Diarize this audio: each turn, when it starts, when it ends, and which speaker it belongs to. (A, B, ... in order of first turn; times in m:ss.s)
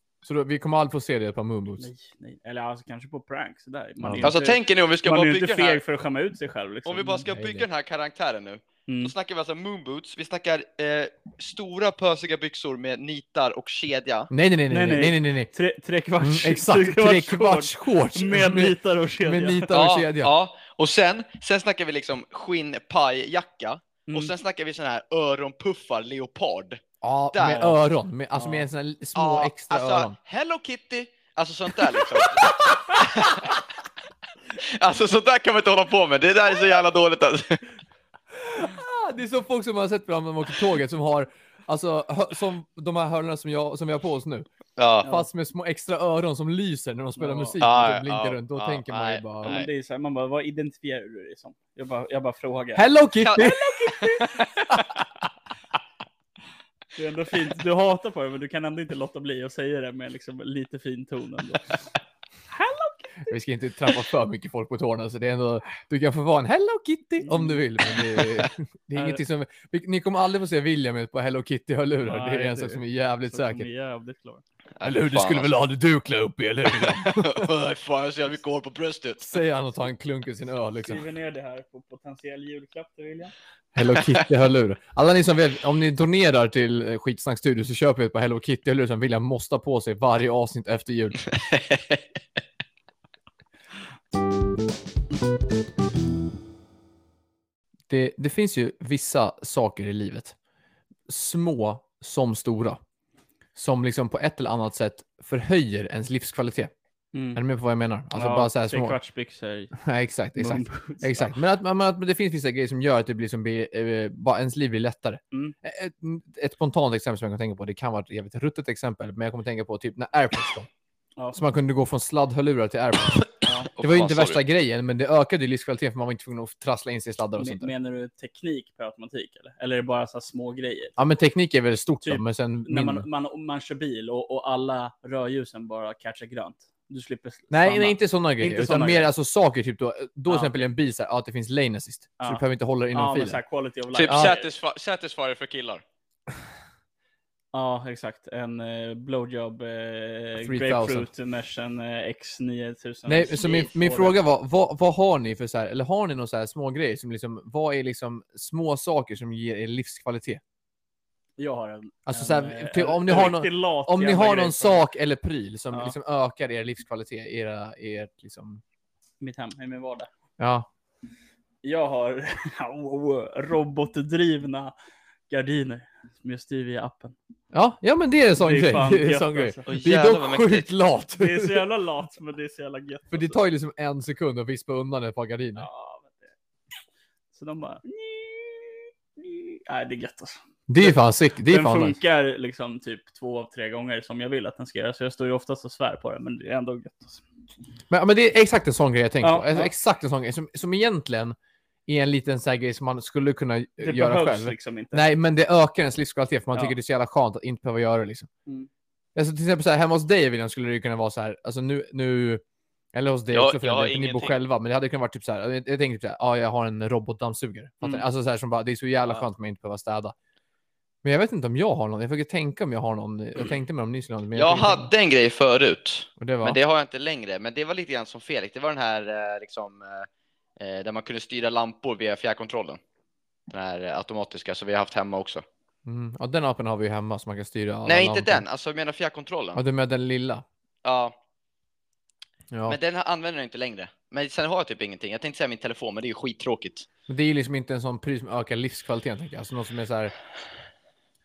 0:00.2-0:01.9 A
0:01.8-0:07.3 B
0:04.0-0:04.3 A
0:04.2-0:05.8 C
0:06.8-0:14.3 C
0:07.3-0:07.6 A
0:08.9-0:09.1 B
0:14.3-0:15.5 A
0:14.7-0:19.7 B
0:16.2-0:20.3 A
0:19.7-0:26.8 C
0:24.1-0:24.3 B
0:27.0-0:30.2 A
0:27.3-0:27.8 C
0:28.3-0:28.6 B
0:29.1-0:33.6 C
0:32.1-0:33.6 A
0:34.6-0:37.6 C
0:38.4-0:44.5 A
0:44.8-0:45.1 C
0:45.0-0:49.6 A
0:47.2-0:47.6 B
0:47.6-0:49.7 C
0:49.4-0:54.6 B
0:52.7-0:53.7 A
0:53.2-0:54.8 C
0:56.9-1:01.8 B
1:02.5-1:03.3 B
1:03.2-1:13.7 A
1:07.2-1:07.6 B
1:08.9-1:09.2 B
1:12.0-1:14.4 B
1:14.8-1:15.5 C
1:14.8-1:17.5 A
1:16.7-1:19.4 C
1:19.2-1:21.0 A
1:20.8-1:23.3 B
1:23.7-1:31.2 A
1:31.5-1:32.0 C
1:37.9-1:40.3 A
1:41.1-1:42.8 A
1:43.6-1:46.7 A
1:47.1-1:47.4 B
1:47.3-1:49.0 A
1:48.1-1:49.7 B
1:49.7-2:00.7 A
1:50.4-1:51.3 B
2:01.3-2:07.7 A
2:03.4-2:03.7 B
2:03.7-2:04.4 C
2:07.4-2:10.9 B
2:11.0-2:13.1 A
2:12.0-2:19.1 B
2:17.5-2:23.4 A
2:20.3-2:20.6 B
2:22.2-2:24.5 B
2:23.9-2:25.8 C
2:24.1-2:24.3 A
2:27.5-2:34.2 B
2:30.4-2:31.1 A
2:33.1-2:40.4 A
2:41.4-2:44.8 B
2:42.0-2:48.6 A
2:49.2-2:50.1 B
2:50.4-2:50.7 A
2:51.6-2:54.7 B
2:55.3-2:57.2 B
2:57.5-3:01.6 A
2:58.4-2:59.7 B
2:59.7-3:00.7 C
3:01.1-3:03.4 B
3:03.1-3:05.7 A
3:05.6-3:06.3 B
3:07.3-3:17.2 B
3:10.7-3:12.0 A
3:17.9-3:21.4 A
3:19.2-3:19.7 B
3:21.9-3:28.3 A
3:23.8-3:25.0 B
3:29.1-3:32.4 A
3:32.9-3:40.1 A
3:33.3-3:34.4 C
3:41.0-3:44.9 A
3:44.3-3:50.1 C
3:46.2-3:46.6 A
3:50.6-3:52.8 C
3:53.5-3:55.4 C
3:55.8-3:58.4 A
3:57.8-3:59.6 C
3:59.5-4:00.4 A
4:00.8-4:01.1 C
4:02.5-4:02.8 A
4:02.7-4:06.9 C
4:07.1-4:10.1 A